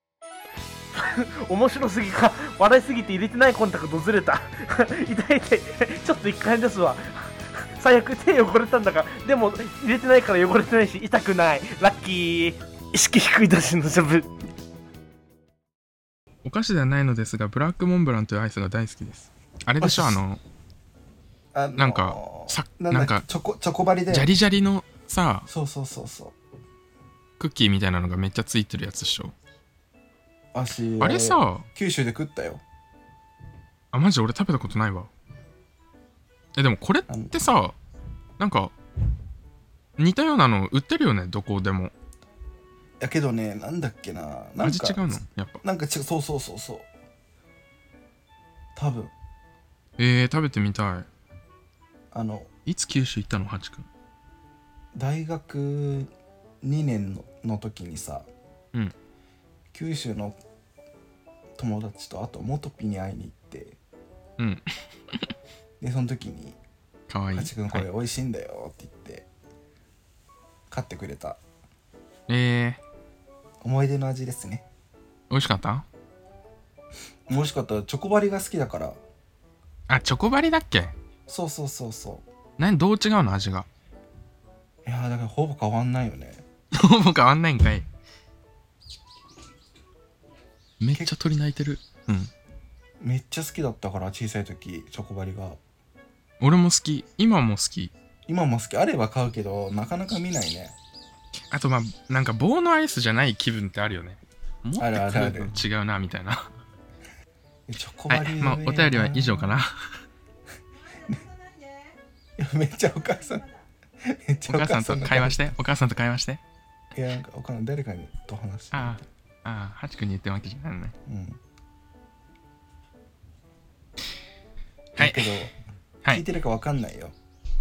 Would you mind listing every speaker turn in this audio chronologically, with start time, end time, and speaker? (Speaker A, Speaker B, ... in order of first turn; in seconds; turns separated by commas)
Speaker A: 0.9-14.3, Speaker B: 16.4-20.4, Speaker C: 19.8-20.2, Speaker C: 21.5-24.3, Speaker B: 21.8-23.2, Speaker B: 24.1-25.5, Speaker C: 25.5-26.3, Speaker B: 27.4-29.3, Speaker C: 30.5-32.6, Speaker B: 31.0-31.6, Speaker B: 33.9-35.1, Speaker B: 36.5-37.8, Speaker B: 38.4-38.7, Speaker B: 40.0-41.9, Speaker C: 43.0-46.9, Speaker B: 44.6-45.6, Speaker C: 48.7-49.1, Speaker B: 50.0-51.1, Speaker C: 52.1-52.5, Speaker B: 52.6-53.9, Speaker C: 54.9-56.1, Speaker C: 56.6-58.3, Speaker C: 59.7-60.4, Speaker C: 61.6-63.8, Speaker B: 64.4-64.7, Speaker C: 65.8-66.6, Speaker B: 67.1-67.8, Speaker C: 67.3-69.2, Speaker C: 70.7-71.4, Speaker B: 72.3-72.8, Speaker C: 73.6-74.7, Speaker B: 75.3-75.8, Speaker C: 77.3-79.0, Speaker B: 79.9-80.9, Speaker C: 81.3-82.2, Speaker B: 82.6-83.7, Speaker C: 84.8-86.4, Speaker B: 86.7-87.9, Speaker B: 90.8-92.3, Speaker C: 93.0-95.6, Speaker B: 96.4-97.9, Speaker C: 98.3-100.8, Speaker B: 101.5-106.5, Speaker C: 104.8-105.5, Speaker C: 107.7-109.5, Speaker B: 108.1-109.7, Speaker C: 112.4-113.5, Speaker C: 114.0-115.4, Speaker B: 114.5-116.4, Speaker C: 116.9-119.0, Speaker B: 118.7-120.9, Speaker C: 121.1-121.4, Speaker B: 125.0-125.5, Speaker C: 125.0-125.5, Speaker C: 126.1-127.1